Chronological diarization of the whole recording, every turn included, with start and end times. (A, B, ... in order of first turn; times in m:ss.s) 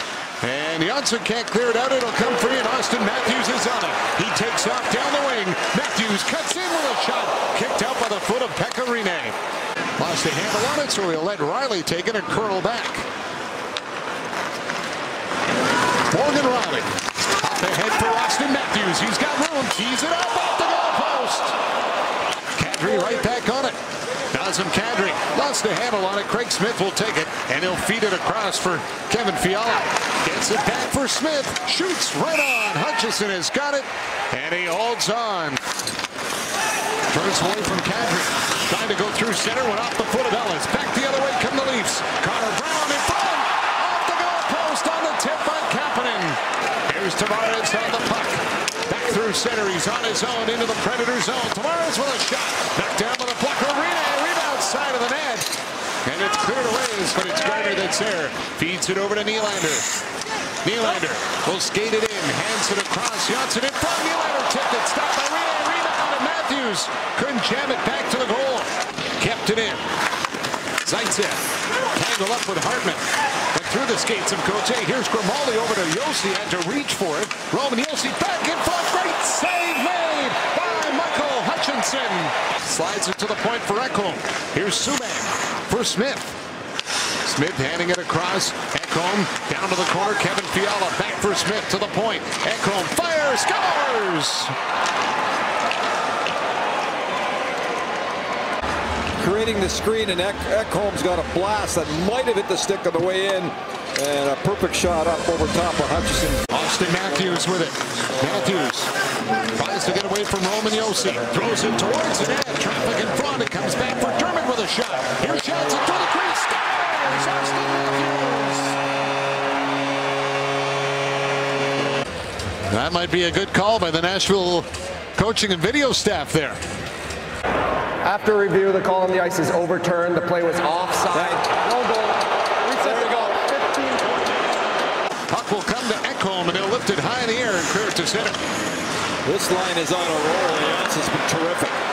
0:00.5-0:09.3 A
0:10.1-0:13.0 A
0:16.1-0:16.9 A
0:17.6-0:21.5 A
0:22.6-0:23.7 A
0:24.3-0:29.7 A
0:30.2-0:35.6 A
0:37.2-0:38.3 A
0:38.9-0:46.4 A
0:46.9-0:48.4 A
0:49.0-0:55.4 A
0:56.1-0:59.8 A
1:00.7-1:08.7 A
1:09.3-1:09.8 A
1:10.9-1:11.4 A
1:12.0-1:13.0 A
1:13.6-1:26.3 A
1:27.4-1:34.5 A
1:39.2-1:46.4 B
1:46.6-1:47.7 A
1:48.2-1:48.9 A
1:49.6-1:58.8 A
2:02.7-2:04.6 A
2:05.3-2:06.6 A
2:08.0-2:14.3 C
2:11.1-2:11.4 B
2:12.8-2:13.2 B
2:15.5-2:18.3 A
2:19.2-2:21.8 B